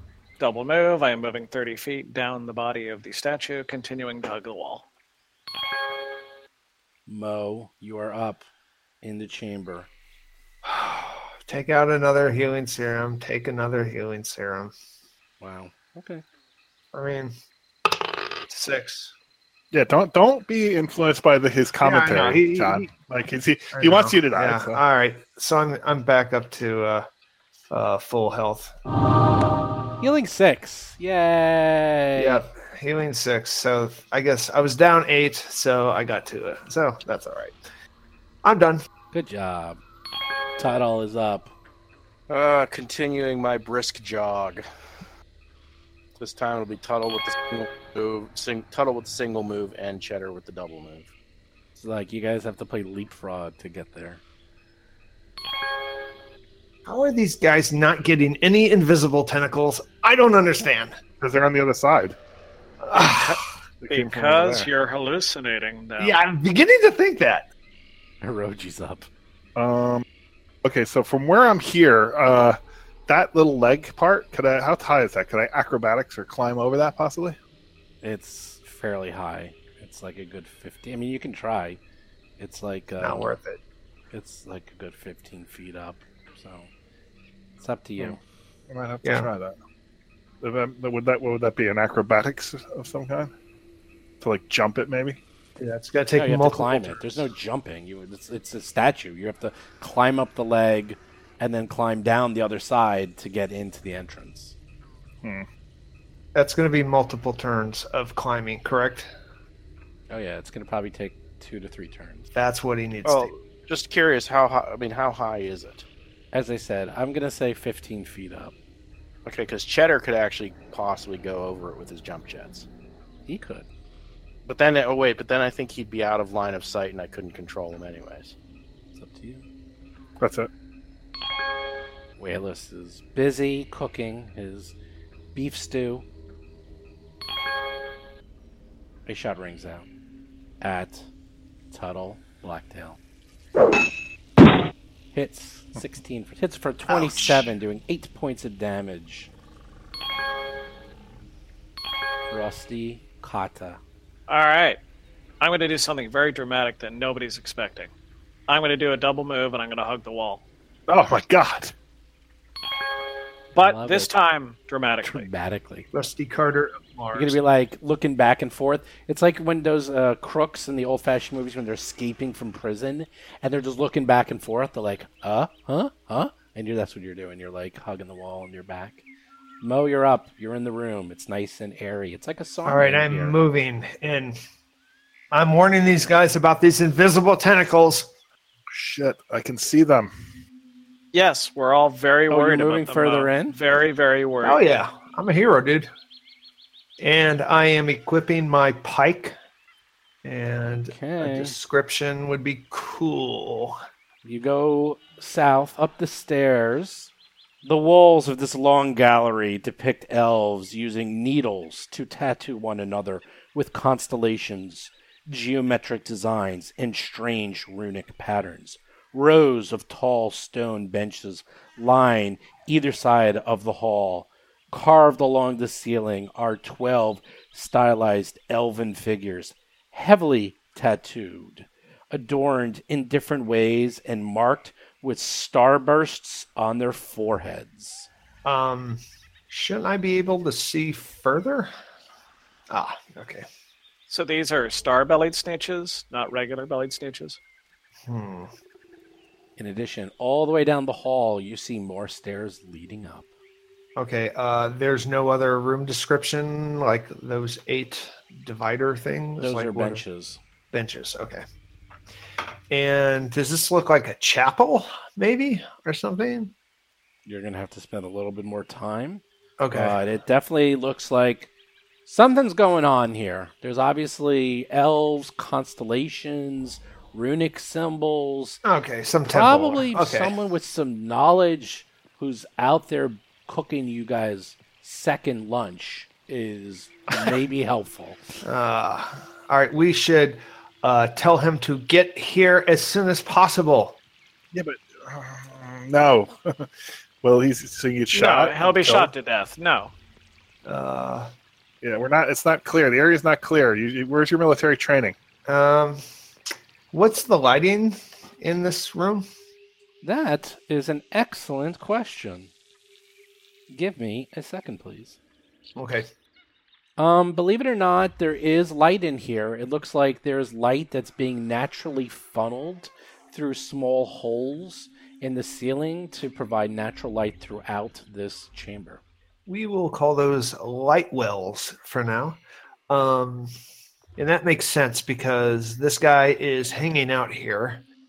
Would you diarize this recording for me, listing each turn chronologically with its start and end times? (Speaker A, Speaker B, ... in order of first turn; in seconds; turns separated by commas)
Speaker A: 0.4-4.9, Speaker B: 7.1-8.5, Speaker B: 9.0-9.9, Speaker C: 10.6-14.7, Speaker B: 15.4-16.2, Speaker C: 16.9-17.3, Speaker C: 18.5-19.1, Speaker D: 19.7-24.8, Speaker C: 21.8-22.9, Speaker C: 23.7-27.1, Speaker C: 27.7-28.7, Speaker B: 30.0-32.5, Speaker C: 32.1-37.6, Speaker C: 38.4-38.8, Speaker B: 39.1-39.8, Speaker B: 40.6-41.5, Speaker E: 42.3-44.6, Speaker E: 46.1-51.1, Speaker B: 51.8-54.2, Speaker C: 56.9-61.0, Speaker D: 61.2-62.2, Speaker C: 62.8-63.4, Speaker D: 62.9-64.7, Speaker A: 63.9-66.2, Speaker C: 66.0-67.5, Speaker B: 68.2-69.1, Speaker D: 69.6-70.0, Speaker D: 70.6-77.4, Speaker B: 78.0-81.8, Speaker B: 82.4-83.3, Speaker C: 83.0-83.6, Speaker B: 84.1-86.7, Speaker B: 87.6-88.2, Speaker D: 88.0-89.6, Speaker C: 89.0-89.3, Speaker D: 90.4-93.3, Speaker D: 94.2-95.2, Speaker C: 95.6-97.3, Speaker B: 96.2-104.5, Speaker C: 106.3-109.1, Speaker B: 110.1-112.3, Speaker C: 112.3-113.3, Speaker E: 113.0-115.9, Speaker B: 116.3-118.5, Speaker E: 119.3-122.7, Speaker B: 123.3-123.7, Speaker E: 124.5-128.3, Speaker B: 128.9-129.4, Speaker D: 130.2-130.5, Speaker B: 132.2-134.8, Speaker B: 135.3-136.1, Speaker B: 139.1-139.9, Speaker B: 140.6-141.1, Speaker B: 141.7-143.0, Speaker B: 145.1-149.3, Speaker C: 146.9-147.6, Speaker B: 152.3-153.8, Speaker A: 154.3-154.8, Speaker A: 155.4-157.9, Speaker A: 158.5-160.4, Speaker D: 160.9-161.7, Speaker A: 163.5-165.3, Speaker B: 163.6-164.1, Speaker B: 165.0-165.9, Speaker C: 165.9-167.4, Speaker B: 167.1-179.0, Speaker B: 179.6-183.4, Speaker C: 182.6-184.4, Speaker C: 185.3-188.1, Speaker D: 188.7-190.1, Speaker A: 191.1-194.8, Speaker B: 192.3-193.6, Speaker C: 194.4-195.9, Speaker C: 197.0-199.3, Speaker C: 200.2-203.8, Speaker B: 200.9-201.6, Speaker B: 204.2-207.1, Speaker B: 207.6-238.1, Speaker C: 238.4-241.7, Speaker C: 242.7-243.5, Speaker A: 244.1-247.4, Speaker C: 248.1-248.5, Speaker B: 249.6-253.3, Speaker C: 254.0-260.0, Speaker B: 259.4-260.4, Speaker C: 260.7-261.4, Speaker C: 262.7-266.5, Speaker B: 267.3-271.5, Speaker C: 269.6-270.0, Speaker B: 272.1-278.6, Speaker C: 278.6-280.4, Speaker B: 279.3-288.2, Speaker C: 288.4-294.0, Speaker D: 294.5-296.7, Speaker D: 297.2-299.1, Speaker A: 298.1-299.9, Speaker C: 300.6-301.3, Speaker D: 301.8-305.1, Speaker C: 305.5-306.0, Speaker C: 306.9-309.3, Speaker B: 310.0-312.5, Speaker B: 313.7-315.2, Speaker C: 315.8-316.1, Speaker B: 317.0-329.0, Speaker C: 329.5-333.5, Speaker C: 334.2-337.9